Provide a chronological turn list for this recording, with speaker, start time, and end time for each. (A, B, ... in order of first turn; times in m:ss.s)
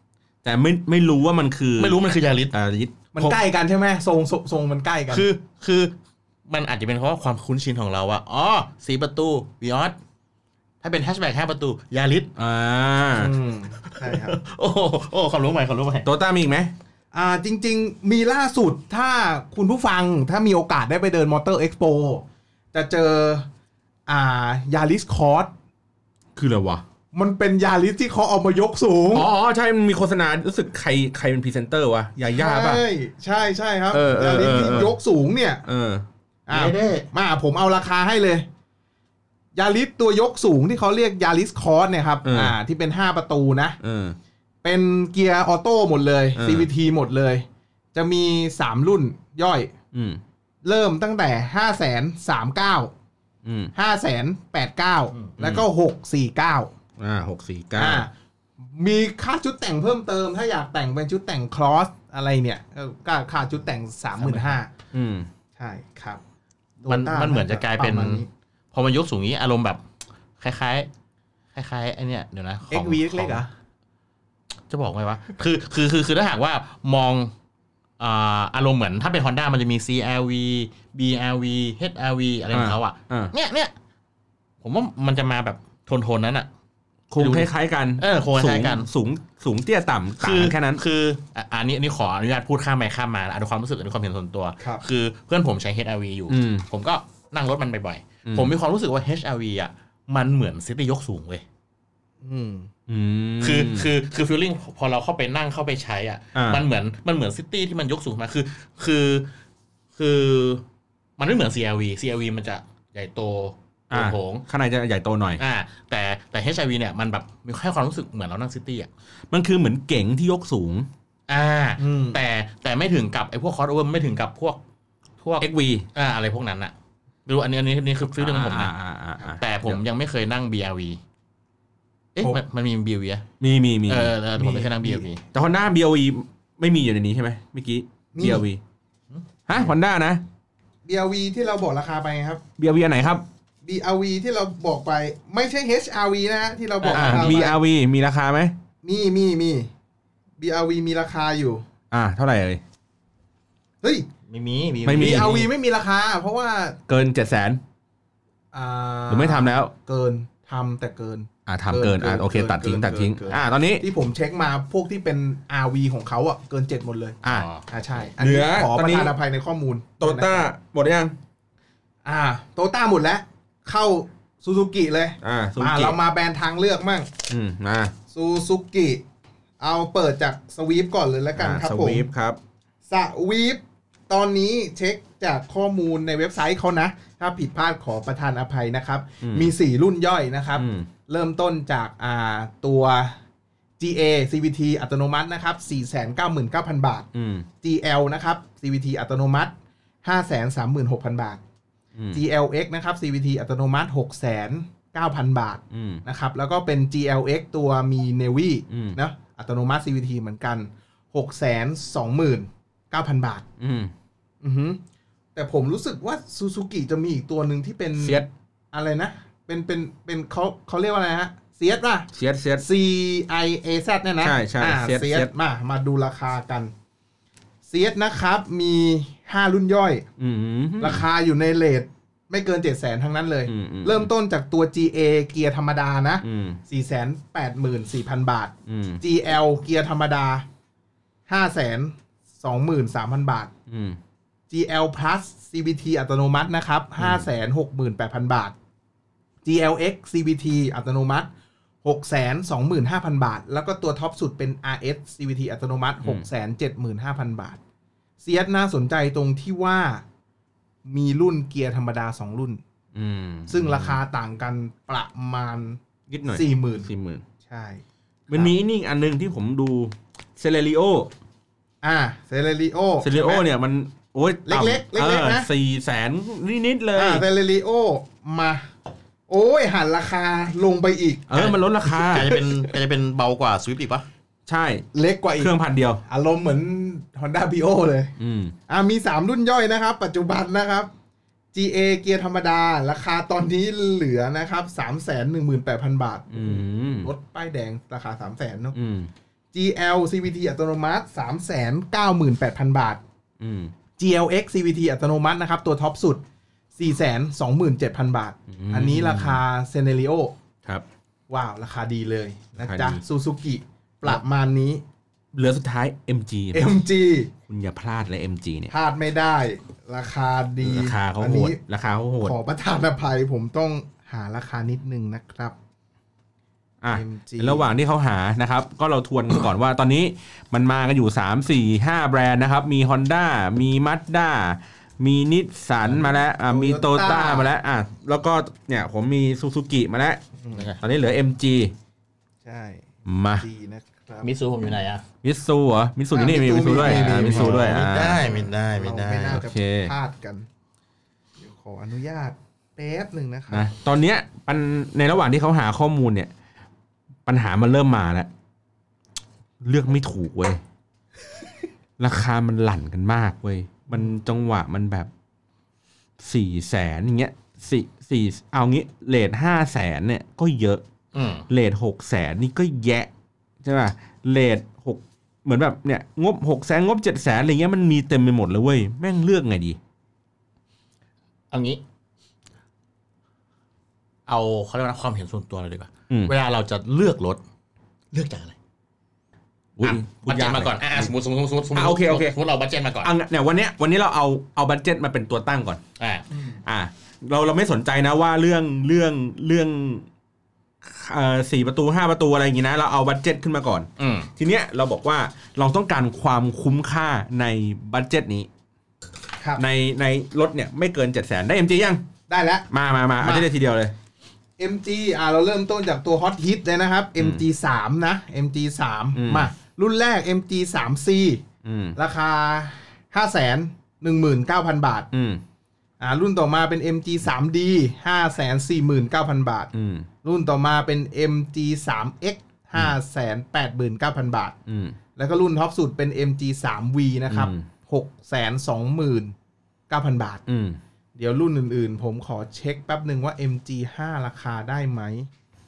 0:00.4-0:02.0 A
0:01.8-0:02.5 B
0:02.5-0:03.4 A
0:03.1-0:05.3 C
0:05.1-0:05.9 B
0:06.5-0:10.0 B
0:10.8-0:12.3 B
0:12.4-0:13.3 A
0:13.2-0:14.4 C
0:13.8-0:16.1 B
0:16.0-0:16.7 A
0:17.1-0:23.5 C
0:24.1-0:25.5 C
0:26.4-0:26.8 A
0:27.1-0:29.3 C
0:29.1-0:32.8 A
0:32.3-0:35.6 C
0:33.9-0:34.9 A
0:35.6-0:36.0 A
0:36.5-0:38.4 C
0:36.5-0:37.1 B
0:39.5-0:43.8 C
0:42.2-0:42.5 A
0:43.8-0:44.2 A
0:44.6-0:49.7 C
0:46.3-0:46.7 A
0:49.9-0:50.2 A
0:50.6-0:52.9 C
0:53.4-0:53.7 A
0:53.7-0:56.7 C
0:55.4-0:55.6 A
0:57.0-0:58.0 A
0:57.8-1:04.7 C
1:04.2-1:04.6 B
1:04.9-1:05.3 A
1:05.6-1:06.2 C
1:06.8-1:08.3 C
1:06.8-1:09.8 B
1:10.4-1:10.9 B
1:11.5-1:13.4 B
1:12.7-1:13.5 C
1:14.7-1:17.3 B
1:18.0-1:23.7 B
1:22.5-1:23.3 A
1:24.6-1:26.5 B
1:27.1-1:30.8 A
1:27.2-1:28.9 B
1:30.2-1:41.4 B
1:36.3-1:36.6 A
1:38.2-1:38.5 A
1:42.2-1:42.7 C
1:42.9-1:43.9 A
1:43.4-1:49.3 B
1:46.3-1:46.6 A
1:50.0-1:50.6 B
1:51.2-1:54.4 B
1:53.9-1:55.4 A
1:55.4-1:58.9 B
1:59.3-2:00.9 A
2:01.3-2:04.6 B
2:01.8-2:02.2 C
2:05.2-2:06.7 B
2:05.4-2:05.9 A
2:07.2-2:11.0 B
2:08.2-2:09.8 A
2:12.1-2:13.2 B
2:13.4-2:14.1 A
2:13.9-2:15.2 B
2:14.3-2:15.0 C
2:15.3-2:18.6 A
2:18.1-2:18.4 C
2:19.1-2:19.7 B
2:19.5-2:20.2 A
2:20.8-2:22.4 C
2:22.6-2:23.2 A
2:23.6-2:27.6 C
2:26.8-2:27.4 B
2:26.9-2:28.5 A
2:28.8-2:29.7 C
2:30.4-2:31.6 C
2:31.9-2:32.6 A
2:33.8-2:34.1 C
2:34.3-2:35.4 B
2:34.8-2:35.4 A
2:34.9-2:36.8 C
2:36.9-2:37.6 A
2:38.5-2:50.5 C
2:39.1-2:39.7 A
2:41.5-2:43.8 A
2:47.2-2:47.7 B
2:48.2-2:49.1 A
2:50.0-2:51.1 A
2:52.0-2:57.1 C
2:55.2-2:56.0 A
2:57.3-2:57.9 A
2:58.1-2:59.0 C
2:59.6-3:02.1 C
3:01.4-3:02.4 A
3:02.9-3:13.2 C
3:09.2-3:09.5 A
3:10.6-3:10.9 A
3:13.8-3:17.1 C
3:17.1-3:17.5 A
3:17.6-3:19.5 C
3:20.0-3:21.4 C
3:22.0-3:22.2 A
3:22.1-3:33.4 C
3:25.7-3:26.0 A
3:28.7-3:29.0 A
3:33.6-3:33.9 A
3:34.4-3:34.8 C
3:35.3-3:42.1 C
3:38.0-3:38.3 A
3:42.1-3:42.6 A
3:42.6-3:46.7 C
3:44.2-3:45.3 A
3:47.6-3:50.0 C
3:50.2-3:51.0 A
3:50.8-4:00.4 C
3:53.5-3:54.1 A
3:56.2-3:56.6 A
3:58.6-3:59.0 A
4:01.3-4:03.5 C
4:03.7-4:04.0 A
4:04.5-4:08.5 C
4:07.0-4:07.2 A
4:09.4-4:11.3 C
4:11.8-4:17.6 C
4:18.2-4:20.0 C
4:20.8-4:22.6 C
4:22.9-4:24.0 A
4:23.5-4:26.9 C
4:26.1-4:27.2 A
4:27.4-4:28.5 C
4:28.3-4:31.1 A
4:31.8-4:33.4 C
4:33.0-4:37.2 A
4:34.4-4:35.5 C
4:37.0-4:38.7 C
4:39.3-4:41.4 C
4:41.3-4:42.3 A
4:41.3-4:44.0 B
4:42.1-4:42.4 C
4:44.5-4:44.8 A
4:44.9-4:45.5 C
4:45.4-4:46.0 A
4:46.1-4:48.1 C
4:48.2-4:48.5 A
4:48.7-4:50.9 C
4:51.5-4:58.8 C
4:56.3-4:57.1 A
4:58.7-4:59.1 A
4:59.5-5:03.0 C
5:03.4-5:03.7 A
5:04.0-5:06.2 C
5:06.8-5:10.3 C
5:08.5-5:09.4 A
5:11.3-5:14.8 C
5:12.6-5:13.0 A
5:15.3-5:16.7 A
5:16.5-5:17.3 C
5:17.5-5:18.7 A
5:18.7-5:21.6 C
5:20.6-5:22.3 A
5:22.2-5:25.5 C
5:26.8-5:40.2 A
5:26.9-5:27.7 C
5:35.8-5:37.5 C
5:40.4-5:40.7 C
5:40.5-5:40.8 B
5:40.8-5:41.7 A
5:42.4-5:44.3 C
5:43.0-5:43.4 A
5:44.2-5:45.0 B
5:45.2-5:48.2 A
5:46.1-5:50.5 C
5:46.7-5:49.4 B
5:49.3-5:49.9 A
5:51.4-5:53.7 C
5:53.5-5:56.3 A
5:57.2-5:58.3 A
5:59.6-6:00.6 A
6:02.0-6:05.1 A
6:06.2-6:10.8 A
6:11.1-6:11.4 B
6:11.5-6:13.1 A
6:13.6-6:19.8 A
6:21.5-6:21.8 B
6:24.3-6:27.4 B
6:28.1-6:28.5 B
6:29.8-6:31.1 A
6:29.8-6:33.1 B
6:31.7-6:32.4 A
6:33.0-6:35.8 A
6:36.0-6:36.3 B
6:36.3-6:36.6 C
6:36.6-6:40.1 A
6:40.8-6:48.5 A
6:44.0-6:44.3 B
6:49.6-6:52.0 A
6:52.3-6:52.7 C
6:52.7-6:53.9 A
6:53.2-6:53.5 C
6:54.6-7:01.4 C
6:59.1-6:59.5 A
7:01.6-7:02.0 A
7:02.0-7:05.1 C
7:05.1-7:05.4 A
7:06.0-7:09.7 C
7:09.7-7:10.1 A
7:10.2-7:14.6 C
7:14.7-7:15.0 A
7:15.2-7:19.3 C
7:17.3-7:17.7 A
7:19.9-7:20.4 C
7:20.5-7:20.8 A
7:21.2-7:25.3 C